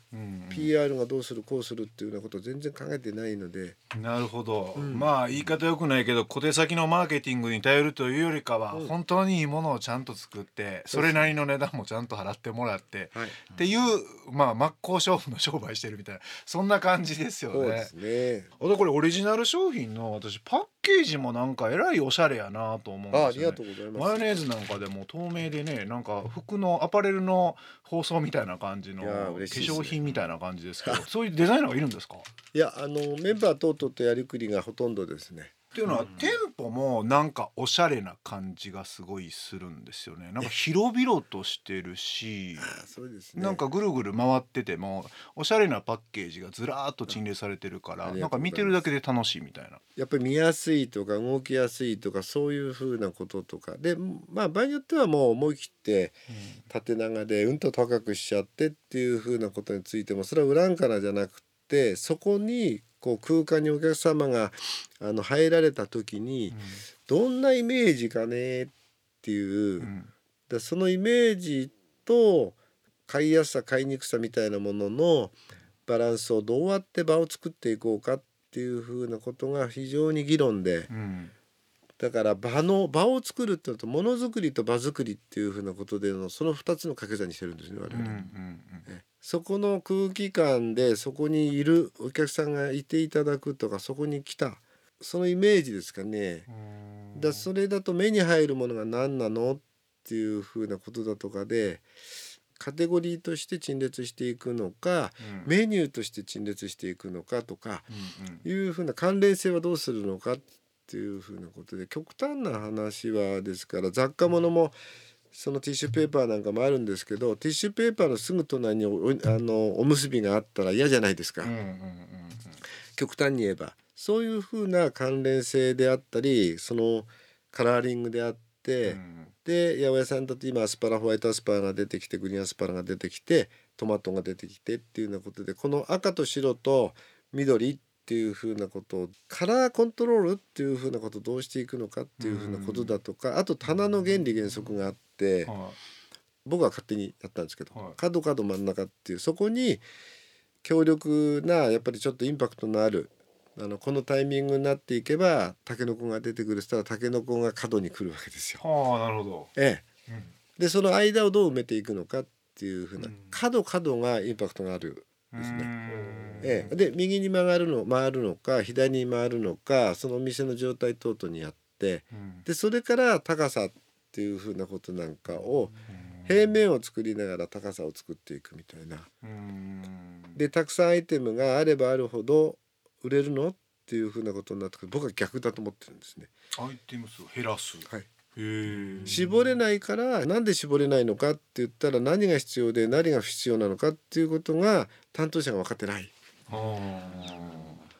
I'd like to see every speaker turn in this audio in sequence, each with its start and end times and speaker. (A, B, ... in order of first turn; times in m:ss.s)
0:00.1-0:00.7 A
0:00.5-0:03.8 B
0:03.9-0:17.9 A
0:04.8-0:05.1 B
0:10.9-0:11.3 B
0:17.5-0:18.5 B
0:18.6-0:32.3 A
0:23.1-0:24.4 B
0:29.0-0:30.0 B
0:32.5-0:35.5 B
0:35.7-0:42.7 A
0:42.6-0:43.6 B
0:43.4-0:49.8 A
0:48.0-0:48.8 B
0:50.0-0:56.2 B
0:56.3-0:56.6 A
0:56.7-1:09.9 B
1:06.5-1:06.8 A
1:09.8-1:10.1 A
1:10.5-1:12.6 B
1:13.1-1:20.9 B
1:20.9-1:21.3 A
1:22.0-1:28.3 B
1:27.9-1:28.9 A
1:28.9-1:36.5 B
1:36.5-1:37.5 A
1:37.2-1:41.8 B
1:42.6-1:47.9 B
1:45.2-1:45.5 A
1:47.9-1:48.4 A
1:48.4-1:54.8 B
1:55.3-2:01.5 B
2:01.4-2:02.6 A
2:02.9-2:25.5 B
2:08.8-2:09.3 A
2:22.2-2:23.0 A
2:25.4-2:25.8 A
2:26.4-2:29.8 B
2:30.6-2:38.6 B
2:38.6-2:39.5 A
2:39.6-2:39.8 B
2:40.6-2:45.7 B
2:43.0-2:43.4 A
2:45.3-2:46.7 A
2:46.4-2:59.1 B
2:52.1-2:52.4 A
2:55.9-2:56.5 A
2:59.2-3:00.4 A
3:00.3-3:06.3 B
3:06.6-3:09.5 A
3:09.0-3:16.1 B
3:16.5-3:17.8 A